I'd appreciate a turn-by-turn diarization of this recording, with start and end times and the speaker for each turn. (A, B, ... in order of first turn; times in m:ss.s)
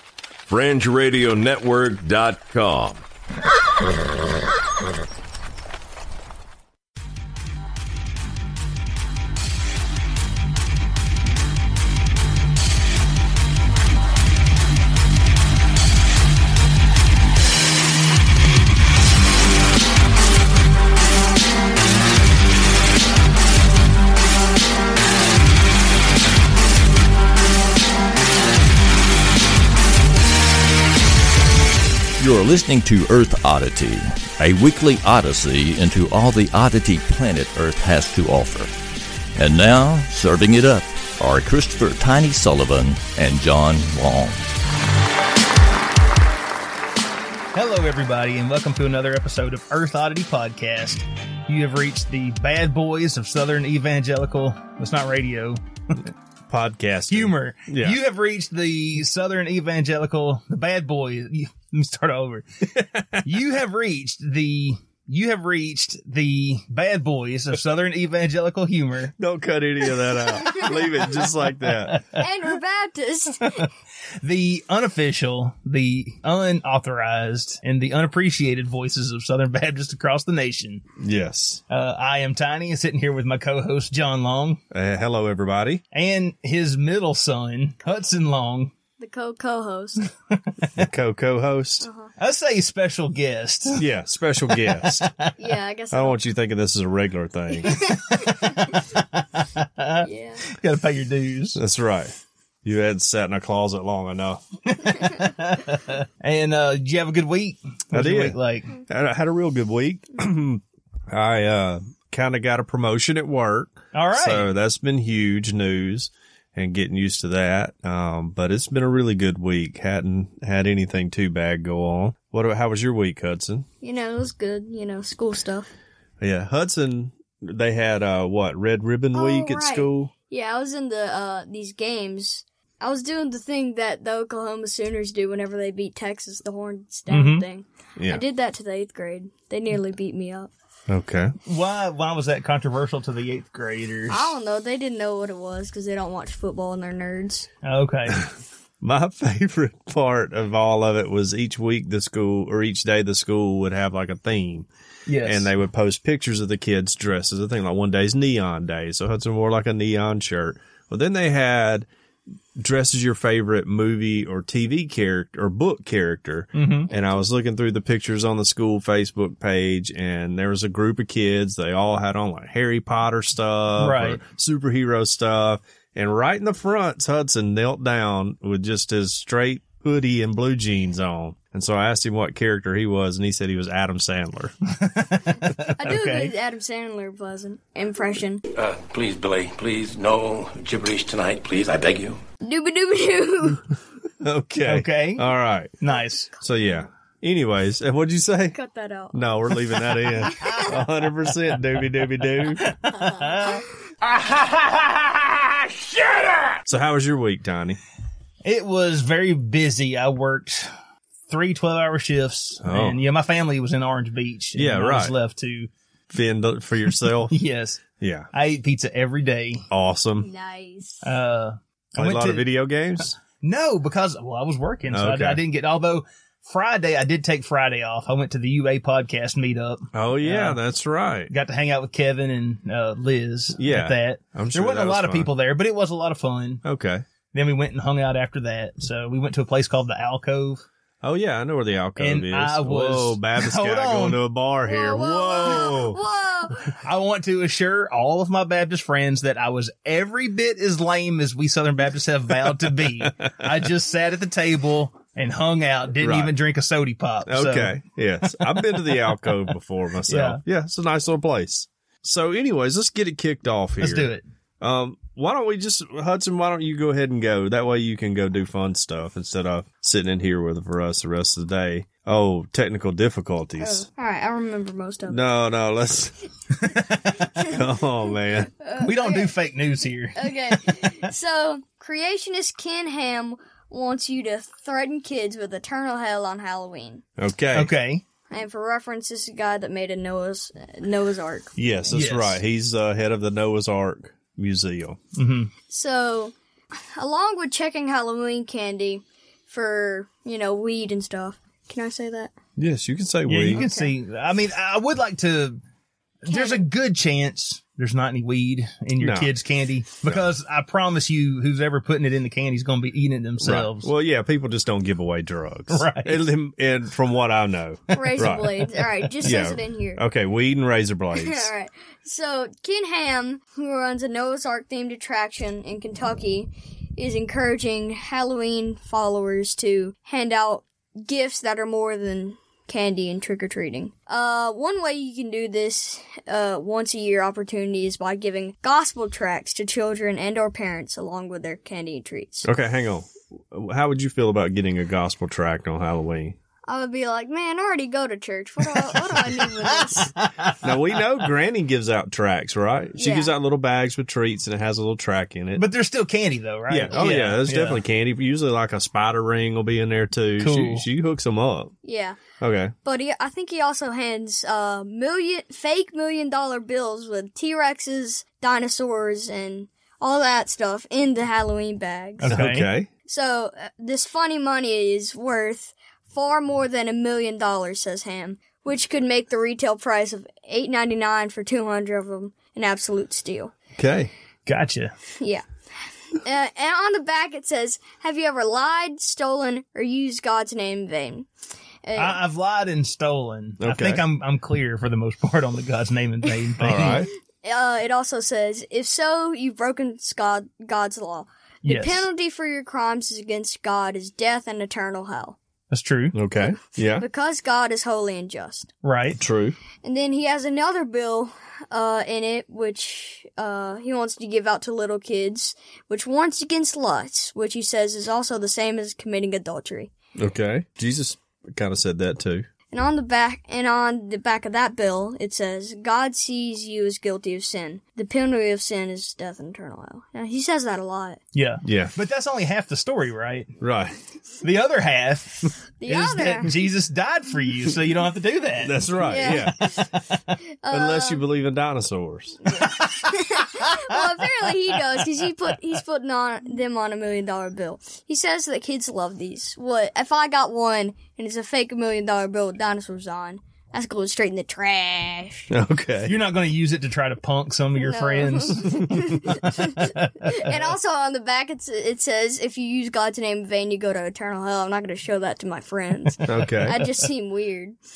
0:00.5-0:03.0 A
0:32.2-0:38.7 B
0:39.3-0:44.5 B
0:47.5-0:56.1 C
0:56.5-0:58.0 D
0:57.1-1:02.6 C
1:02.7-1:03.3 D
1:03.2-1:09.1 C
1:09.2-1:12.0 D
1:10.4-1:10.7 E
1:10.7-1:12.2 C
1:12.1-1:13.7 E
1:13.4-1:13.7 C
1:14.2-1:20.8 C
1:21.0-1:21.6 D
1:21.7-1:24.6 C
1:24.7-1:25.8 D
1:25.9-1:28.7 C
1:29.0-1:30.1 E
1:30.3-1:30.7 C
1:30.8-1:31.9 D
1:31.8-1:32.1 E
1:32.2-1:33.8 C
1:33.8-1:35.1 D
1:34.5-1:35.3 C
1:35.4-1:36.2 E
1:35.9-1:37.9 D
1:37.6-1:38.8 E
1:38.3-1:41.6 C
1:40.0-1:40.4 E
1:41.5-1:44.4 D
1:44.9-1:48.8 C
1:47.9-2:03.7 D
1:53.9-1:54.5 C
2:03.8-2:05.7 E
2:06.2-2:10.1 D
2:09.1-2:20.5 E
2:17.1-2:17.4 C
2:18.0-2:18.2 D
2:20.9-2:21.3 D
2:21.4-2:24.3 C
2:24.1-2:27.5 E
2:27.6-2:28.2 C
2:28.8-2:34.7 D
2:35.1-2:35.5 C
2:35.2-2:41.9 D
2:42.6-3:04.5 D
2:46.5-2:46.9 C
2:53.8-2:54.2 C
3:04.8-3:06.3 C
3:05.8-3:08.4 E
3:08.5-3:12.2 F
3:12.4-3:13.6 E
3:14.2-3:15.7 D
3:14.6-3:15.3 C
3:15.8-3:16.3 C
3:16.4-3:18.6 D
3:18.5-3:19.2 E
3:19.1-3:22.6 D
3:20.4-3:20.7 E
3:22.4-3:23.6 C
3:22.9-3:23.7 E
3:26.6-3:27.8 D
3:28.4-3:30.7 C
3:31.3-3:35.7 C
3:32.6-3:33.0 D
3:34.5-3:35.1 D
3:36.1-3:37.4 D
3:37.3-3:39.6 C
3:38.0-3:38.3 D
3:39.7-3:40.3 D
3:40.2-3:41.1 E
3:41.0-3:42.5 C
3:42.0-3:43.1 D
3:43.0-3:50.6 C
3:44.9-3:45.4 D
3:49.9-3:51.3 D
3:51.3-3:56.6 C
3:53.6-3:55.3 D
3:56.6-3:57.0 D
3:57.3-4:00.6 C
4:01.0-4:06.0 D
4:02.0-4:04.2 C
4:04.6-4:06.8 E
4:06.8-4:17.8 C
4:13.0-4:13.3 D
4:16.0-4:16.3 D
4:17.2-4:33.9 D
4:20.1-4:20.4 C
4:23.8-4:24.2 C
4:33.6-4:35.2 E
4:35.1-4:36.2 D
4:36.7-4:37.2 C
4:37.4-4:38.5 D
4:38.6-4:39.3 E
4:38.8-4:41.1 C
4:40.2-4:47.0 E
4:47.2-4:47.7 D
4:47.5-4:48.0 C
4:48.3-4:51.9 E
4:51.6-4:55.0 D
4:51.9-4:52.4 C
4:55.2-4:55.5 C
4:55.7-5:02.3 E
5:02.6-5:03.7 D
5:03.3-5:05.6 C
5:03.5-5:03.9 E
5:06.2-5:13.9 C
5:06.3-5:06.6 E
5:09.0-5:09.3 D
5:13.4-5:18.7 D
5:15.7-5:16.3 C
5:17.9-5:20.0 E
5:19.2-5:21.5 D
5:21.2-5:42.5 E
5:42.4-5:46.4 D
5:46.7-5:50.2 E
5:50.2-5:50.6 C
5:50.6-5:55.6 D
5:53.0-5:53.3 E
5:55.6-5:57.8 C
5:56.7-6:01.7 D
6:00.4-6:00.9 C
6:01.8-6:02.2 E
6:02.4-6:02.8 D
6:02.8-6:12.3 E
6:12.2-6:12.7 C
6:12.3-6:12.9 D
6:13.1-6:23.5 E
6:23.8-6:24.1 D
6:24.5-6:24.9 C
6:26.1-6:31.3 E
6:31.8-6:32.2 E
6:32.0-6:37.1 C
6:33.6-6:34.0 D
6:36.6-6:37.1 D
6:37.4-6:45.4 E
6:41.6-6:42.1 C
6:45.7-6:46.2 C
6:46.1-6:47.1 D
6:46.9-6:48.7 E
6:48.8-6:49.2 C
6:49.2-6:49.6 D
6:49.8-6:59.9 E
7:00.2-7:02.5 D
7:02.7-7:11.2 E
7:11.3-7:13.5 C
7:11.6-7:11.9 D
7:13.6-7:14.0 D
7:14.4-7:18.9 C
7:15.8-7:16.5 E
7:18.6-7:20.0 D
7:19.0-7:21.2 E
7:20.7-7:22.4 D
7:22.5-7:35.5 E
7:35.5-7:36.2 D
7:36.0-7:40.5 C
7:37.8-7:47.8 E
7:46.2-7:46.9 D